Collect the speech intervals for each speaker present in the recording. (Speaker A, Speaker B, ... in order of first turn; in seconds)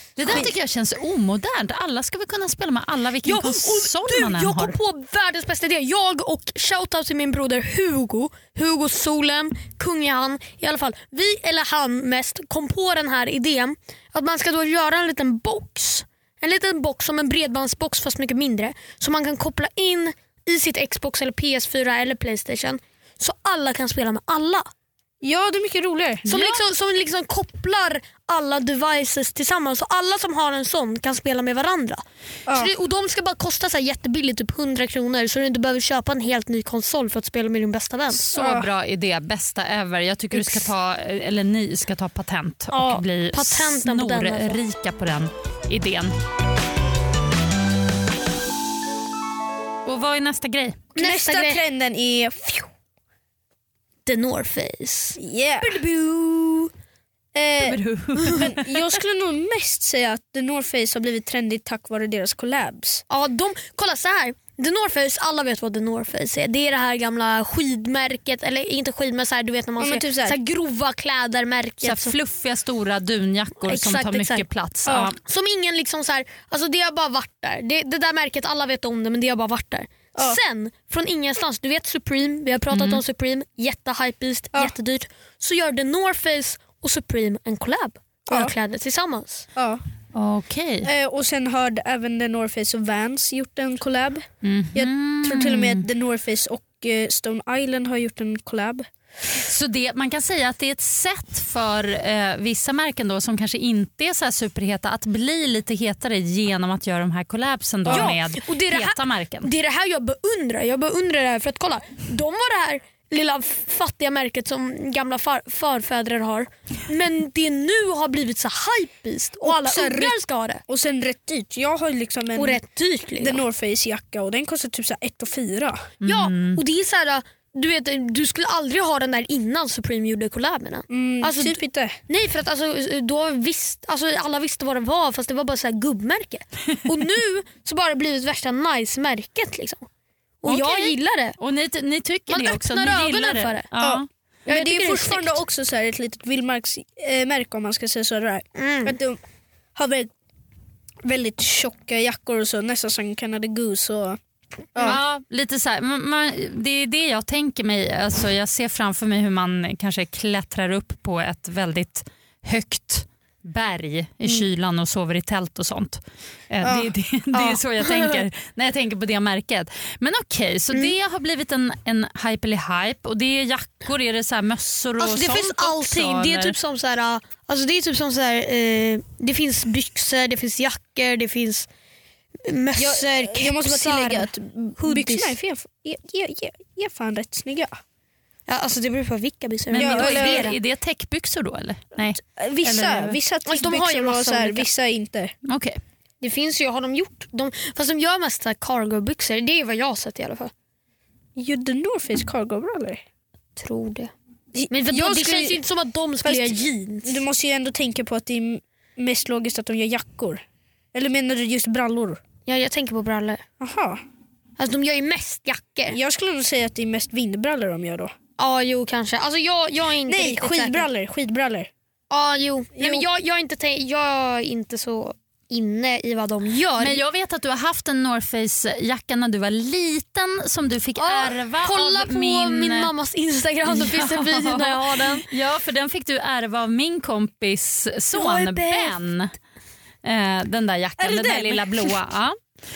Speaker A: 0.2-4.8, 26.2-26.6, 38.1-46.2, 49.9-50.8, 57.6-58.8, 71.8-75.2, 82.7-83.0, 90.1-90.9, 94.4-95.9, 99.4-109.5, 126.0-126.6, 140.4-144.1, 154.8-166.0, 166.5-176.6, 189.7-193.2, 195.5-195.8, 226.8-232.9, 233.7-239.3, 240.0-242.4
Speaker B: 0.2-0.5, 25.2-26.3, 32.5-32.7, 38.3-38.7, 51.0-52.7, 55.2-55.9, 57.3-57.8, 58.3-63.0, 69.8-70.4, 74.9-75.1, 80.2-80.4, 88.3-88.5, 89.6-89.8, 90.8-98.9, 107.9-108.2, 119.4-122.6, 123.2-125.8, 130.9-132.0, 143.8-149.2, 149.8-150.1, 151.1-154.2, 154.7-155.0, 166.6-166.9, 182.8-187.8, 189.7-190.5, 192.2-195.3, 201.4-203.0, 204.6-205.6, 206.2-210.4, 210.9-212.2, 213.6-214.0, 215.9-218.1, 220.1-221.7, 222.8-223.1, 241.0-241.8
Speaker C: 3.2-24.7, 26.3-38.2, 42.7-44.6, 50.9-51.6, 54.0-56.7, 63.1-72.2, 73.6-74.4, 75.2-89.4, 107.9-120.6, 122.3-123.4, 126.0-139.9, 140.4-141.4, 142.3-143.7, 144.5-145.4, 148.6-148.9, 167.4-168.2, 175.0-181.7, 182.4-185.4, 188.5-190.6, 193.4-194.7, 196.2-200.5, 203.6-204.1, 204.7-207.2, 212.4-213.4, 214.6-216.0, 218.4-220.9, 222.1-227.0, 230.9-235.3, 238.1-239.0